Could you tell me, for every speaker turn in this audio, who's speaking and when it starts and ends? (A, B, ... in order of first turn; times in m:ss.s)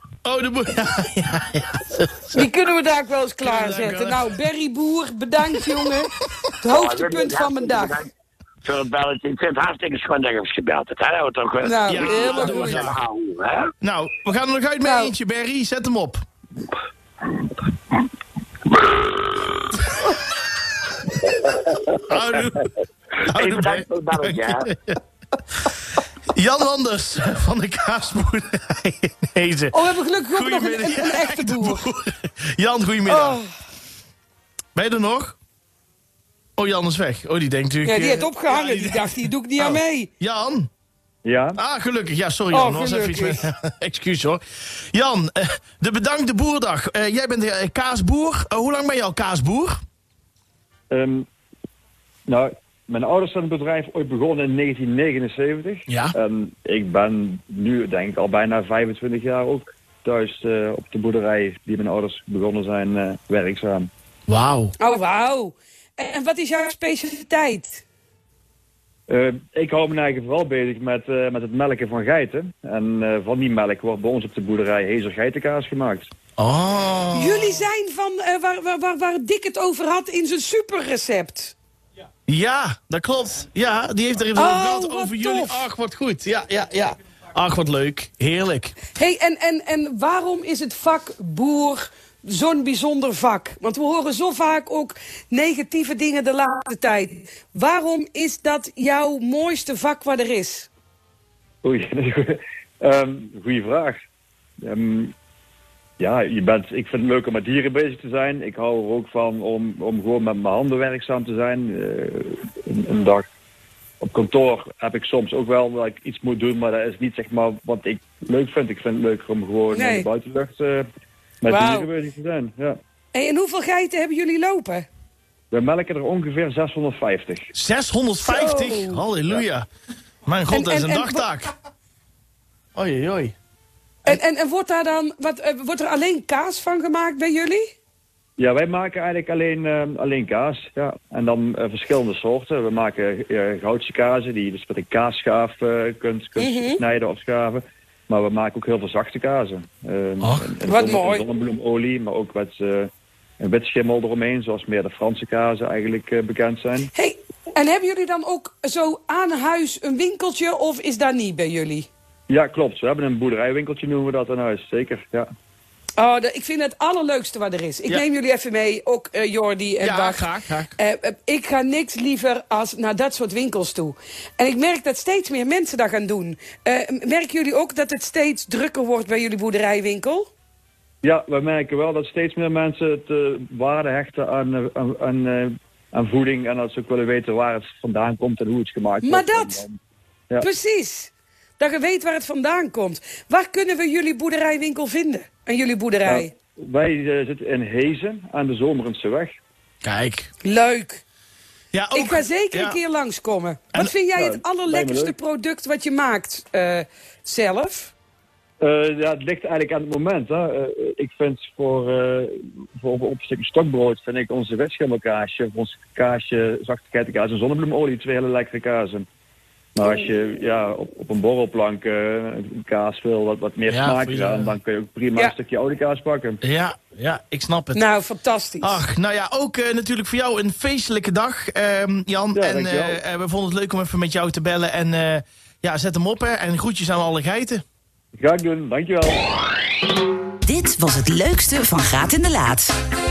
0:00.2-0:02.4 A
0:02.3-0:08.0 B
0:03.4-0:04.3 A
0:06.7-0:08.1 C
0:08.6-0:13.7 C
0:11.6-0:12.9 B
0:11.8-0:13.0 A
0:13.8-0:16.2 A
0:14.8-0:15.1 B
0:22.0-0:22.7 A
0:23.3-0:25.0 A
0:23.3-0:24.7 C
0:26.3-0:33.4 A
0:29.7-0:31.8 B
0:33.0-0:33.5 B
0:34.7-0:35.4 A
0:36.6-0:40.7 A
0:37.8-0:40.1 B
0:41.2-0:41.6 D
0:41.6-0:44.4 A
0:42.5-0:43.4 B
0:44.9-0:49.8 A
0:50.9-0:51.2 D
0:52.3-1:03.9 D
0:55.9-0:56.1 A
1:04.3-1:04.7 A
1:04.8-1:07.8 B
1:09.1-1:16.1 D
1:16.4-1:17.6 A
1:17.1-1:21.5 B
1:22.3-1:28.8 A
1:24.4-1:25.6 B
1:29.0-1:40.7 B
1:41.6-1:44.0 D
1:44.6-1:45.1 D
1:46.0-1:53.2 D
1:54.0-2:00.9 D
1:59.7-2:00.1 B
2:01.4-2:02.8 D
2:01.4-2:01.9 B
2:03.1-2:04.9 B
2:05.5-2:07.5 D
2:07.5-2:09.6 A
2:08.2-2:09.0 B
2:10.3-2:11.5 A
2:10.5-2:11.3 B
2:12.7-2:13.3 A
2:14.0-2:17.7 B
2:18.4-2:36.9 D
2:26.4-2:26.8 B
2:30.2-2:30.4 A
2:30.6-2:31.2 B
2:36.9-2:41.9 B
2:42.3-2:45.3 D
2:46.0-3:00.3 B
2:49.8-2:50.7 A
3:01.0-3:09.8 D
3:09.0-3:09.6 B
3:10.4-3:16.3 B
3:16.0-3:19.4 D
3:19.8-3:20.3 A
3:20.4-3:21.0 B
3:21.7-3:22.8 A
3:21.9-3:27.9 B
3:24.2-3:25.1 D
3:28.6-3:39.0 D
3:39.8-3:46.4 D
3:43.7-3:44.5 A
3:46.4-3:47.8 A
3:47.7-3:48.8 B
3:48.6-3:57.6 A
3:52.3-3:53.0 D
3:58.1-3:59.2 D
4:00.4-4:02.8 E